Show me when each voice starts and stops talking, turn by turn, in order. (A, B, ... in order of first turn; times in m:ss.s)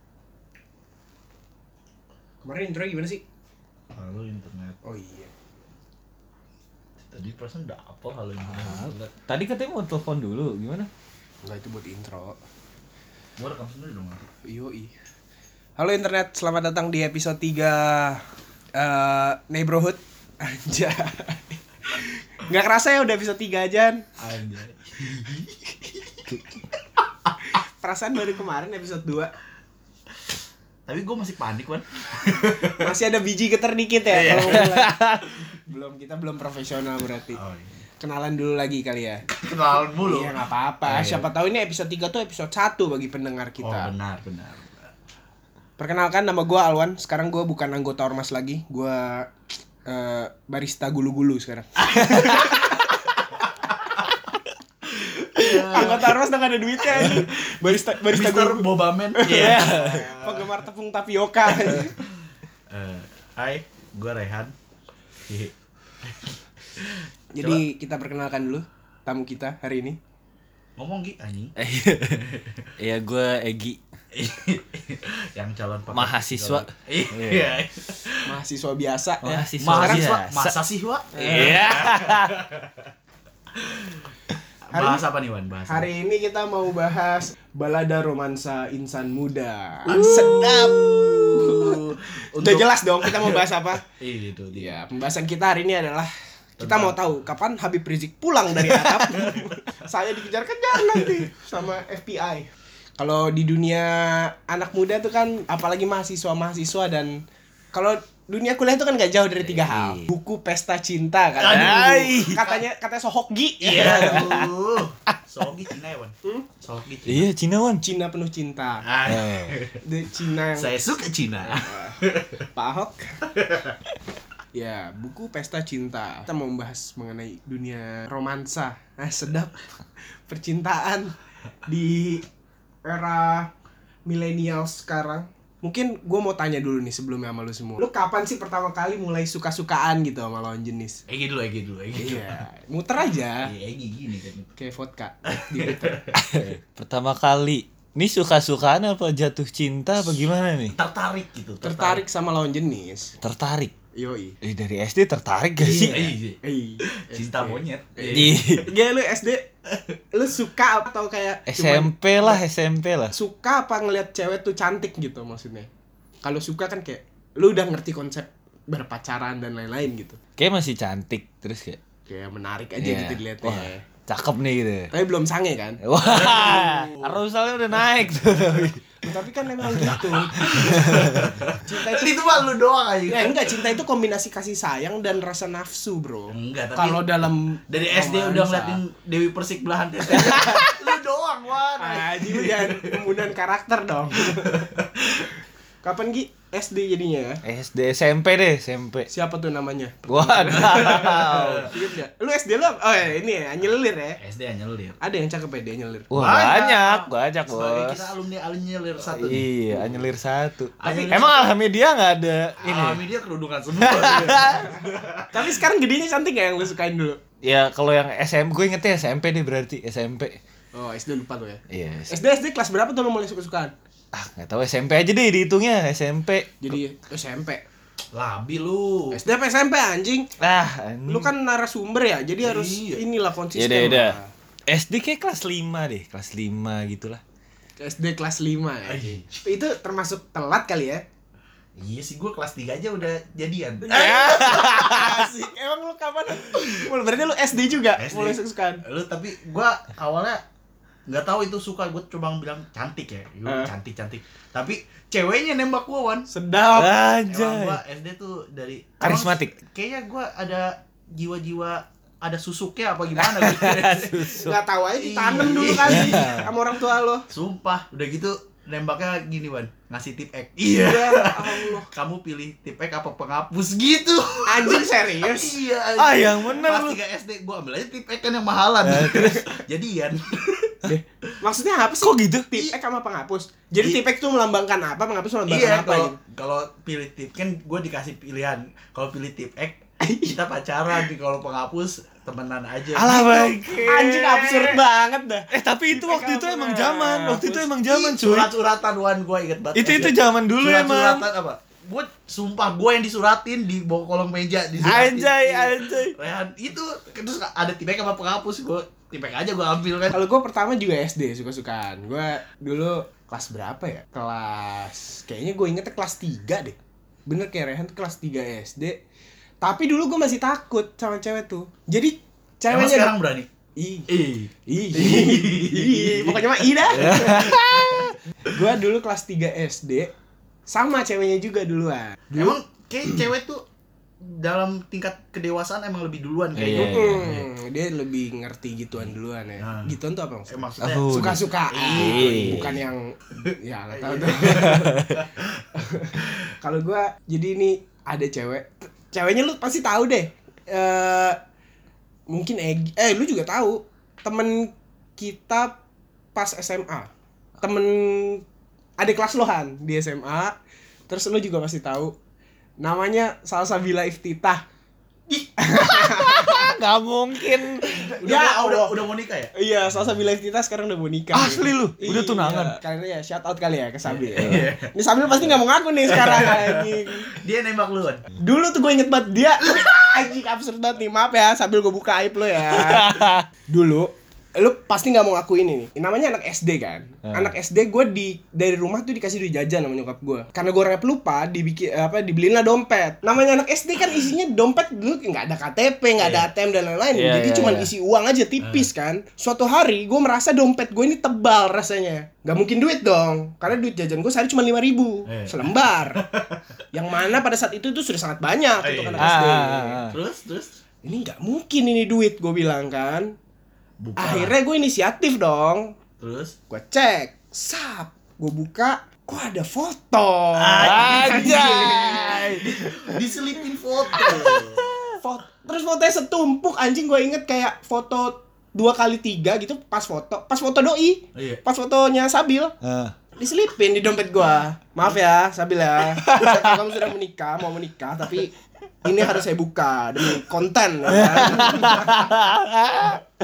0:02.4-0:03.2 A
0:03.9-0:04.8 B
0:04.8-0:05.3 A
0:07.1-0:09.1 B
0:08.6-0:10.9 C
0:11.4-0:12.4 A
0:13.4-0:14.2 B
0:14.4-0:14.9 A
0:15.8-0:18.2 A
0:18.8-0:24.0 A
0:24.2-0:25.6 B
0:27.5-0:29.3 A
0:30.9-0:32.9 B
0:32.8-0:35.0 A
0:34.1-0:34.7 B
0:34.3-0:35.3 C
0:35.7-0:37.4 A
0:37.4-0:37.7 B
0:38.0-0:39.2 A
0:39.3-0:41.3 B
0:40.0-0:43.9 A
0:43.6-0:44.7 B
0:45.8-0:49.3 A
0:49.9-0:53.0 A
0:52.0-0:52.8 B
0:52.1-0:52.5 C
0:53.6-0:54.1 B
0:54.9-0:56.2 B
0:55.4-1:02.0 A
0:55.4-0:55.8 C
0:56.8-1:00.5 B
0:59.3-1:00.1 C
1:01.6-1:04.5 B
1:05.3-1:07.6 B
1:07.3-1:10.0 A
1:10.8-1:11.5 B
1:11.6-1:12.3 C
1:12.2-1:12.7 B
1:12.8-1:13.8 C
1:14.1-1:18.2 B
1:15.9-1:17.6 C
1:18.2-1:20.1 A
1:19.2-1:20.6 C
1:19.6-1:22.9 B
1:21.2-1:22.4 C
1:21.2-1:21.6 A
1:23.5-1:24.1 B
1:24.7-1:25.9 B
1:24.7-1:25.0 A
1:25.7-1:33.8 A
1:29.9-1:34.7 B
1:30.0-1:30.6 C
1:34.5-1:47.2 A
1:36.6-1:37.1 B
1:38.6-1:39.7 B
1:40.9-1:41.2 B
1:47.7-1:54.3 A
1:49.4-1:50.1 C
1:51.4-1:52.6 B
1:51.4-1:52.4 C
1:53.6-1:57.2 B
1:53.8-1:54.5 C
1:57.1-1:57.8 C
1:57.8-1:58.8 A
1:58.8-1:59.8 B
1:59.1-1:59.6 C
1:59.8-2:00.7 A
2:00.6-2:02.4 B
2:01.4-2:02.0 A
2:02.6-2:03.3 A
2:03.4-2:03.8 B
2:04.5-2:09.6 A
2:10.3-2:12.2 A
2:12.9-2:13.5 A
2:14.1-2:21.0 A
2:21.1-2:22.4 B
2:22.0-2:23.5 A
2:23.4-2:24.5 B
2:24.6-2:26.1 A
2:25.3-2:26.0 B
2:26.2-2:30.8 C
2:30.7-2:32.0 B
2:31.6-2:33.1 A
2:33.2-2:33.7 C
2:34.0-2:34.4 A
2:34.4-2:36.1 C
2:35.6-2:38.6 B
2:35.7-2:39.5 A
2:38.1-2:38.7 C
2:40.1-2:42.4 A
2:41.5-2:43.2 C
2:43.1-2:45.7 A
2:46.2-2:50.2 A
2:50.4-2:51.8 C
2:52.1-2:53.8 A
2:52.8-2:54.9 C
2:54.9-2:55.8 A
2:55.8-2:59.0 C
2:56.1-2:57.2 B
2:59.0-3:02.4 A
2:59.7-3:01.3 C
3:00.3-3:03.6 B
3:03.1-3:08.8 A
3:06.3-3:13.2 B
3:10.1-3:10.9 A
3:11.8-3:14.7 A
3:14.2-3:15.4 B
3:15.8-3:17.4 A
3:17.4-3:19.1 C
3:19.1-3:24.2 A
3:20.1-3:21.6 C
3:20.6-3:21.8 B
3:24.2-3:25.0 B
3:25.0-3:26.1 A
3:26.1-3:28.1 C
3:26.1-3:29.5 B
3:29.0-3:33.0 C
3:30.8-3:31.5 B
3:30.8-3:31.1 A
3:32.6-3:35.6 B
3:33.8-3:34.7 C
3:35.3-3:37.2 A
3:37.4-3:40.4 C
3:40.8-3:43.7 A
3:41.7-3:42.2 C
3:44.1-3:46.7 C
3:46.6-3:47.6 A
3:48.1-3:49.2 B
3:49.1-3:50.3 A
3:50.4-3:51.3 C
3:51.1-3:54.3 A
3:52.4-3:53.0 B
3:53.6-3:54.2 C
3:54.7-3:57.2 C
3:57.8-4:01.0 A
3:58.9-3:59.4 B
4:01.8-4:04.7 B
4:03.9-4:08.8 A
4:03.9-4:05.3 C
4:06.4-4:06.8 B
4:08.0-4:10.4 B
4:11.1-4:16.3 B
4:13.4-4:13.7 A
4:16.3-4:17.0 A
4:16.8-4:17.8 C
4:17.3-4:26.5 B
4:19.0-4:19.5 C
4:23.2-4:24.6 C
4:24.4-4:27.3 A
4:25.9-4:26.5 C
4:27.3-4:40.9 B
4:30.8-4:31.9 A
4:34.5-4:35.6 A
4:36.0-4:37.0 C
4:38.8-4:39.4 C
4:40.8-4:46.2 A
4:42.0-4:42.6 C
4:45.5-4:53.2 B
4:50.0-4:50.4 A
4:53.0-4:54.8 C
4:53.1-4:57.7 A
4:55.5-4:58.5 C
4:57.8-5:10.2 B
4:59.8-5:01.3 C
5:04.8-5:06.2 C
5:10.1-5:19.0 A
5:19.6-5:23.1 A
5:22.7-5:23.5 B
5:23.8-5:24.1 A
5:24.1-5:28.1 B
5:24.7-5:30.1 A
5:27.0-5:28.2 C
5:30.7-5:32.6 A
5:32.4-5:33.6 B
5:34.2-5:37.4 B
5:36.6-5:37.4 C
5:36.6-5:45.2 A
5:39.6-5:39.9 B
5:40.5-5:42.8 B
5:40.8-5:42.8 C
5:43.4-5:45.6 B
5:44.7-5:45.1 C
5:45.8-5:51.4 A
5:46.2-5:46.5 B
5:52.3-5:55.8 A
5:56.4-5:58.4 A
5:59.0-6:00.5 A
6:01.1-6:02.2 A
6:02.8-6:04.6 A
6:05.6-6:06.7 A
6:05.9-6:08.2 C
6:07.8-6:09.5 B
6:08.2-6:09.0 A
6:09.5-6:17.3 A
6:11.3-6:12.8 C
6:14.1-6:15.6 B
6:14.4-6:14.7 C
6:16.1-6:18.3 B
6:18.4-6:46.2 A
6:19.6-6:20.3 B
6:22.7-6:23.5 C
6:27.2-6:27.5 C
6:36.2-6:36.5 B
6:37.1-6:37.9 C
6:38.6-6:38.9 B
6:45.3-6:46.7 B
6:46.9-6:50.1 A
6:48.8-6:49.5 B
6:49.2-6:50.2 C
6:50.1-6:50.7 B
6:51.0-6:53.3 A
6:54.0-6:54.5 B
6:54.2-6:56.0 A
6:56.2-6:56.6 B
6:56.7-7:02.6 A
7:00.6-7:04.8 B
7:00.8-7:03.2 C
7:04.1-7:05.2 C
7:04.1-7:04.6 A
7:05.2-7:12.7 A
7:11.3-7:11.6 B
7:12.8-7:13.2 C
7:13.4-7:22.4 A
7:16.2-7:16.8 C
7:21.1-7:23.2 C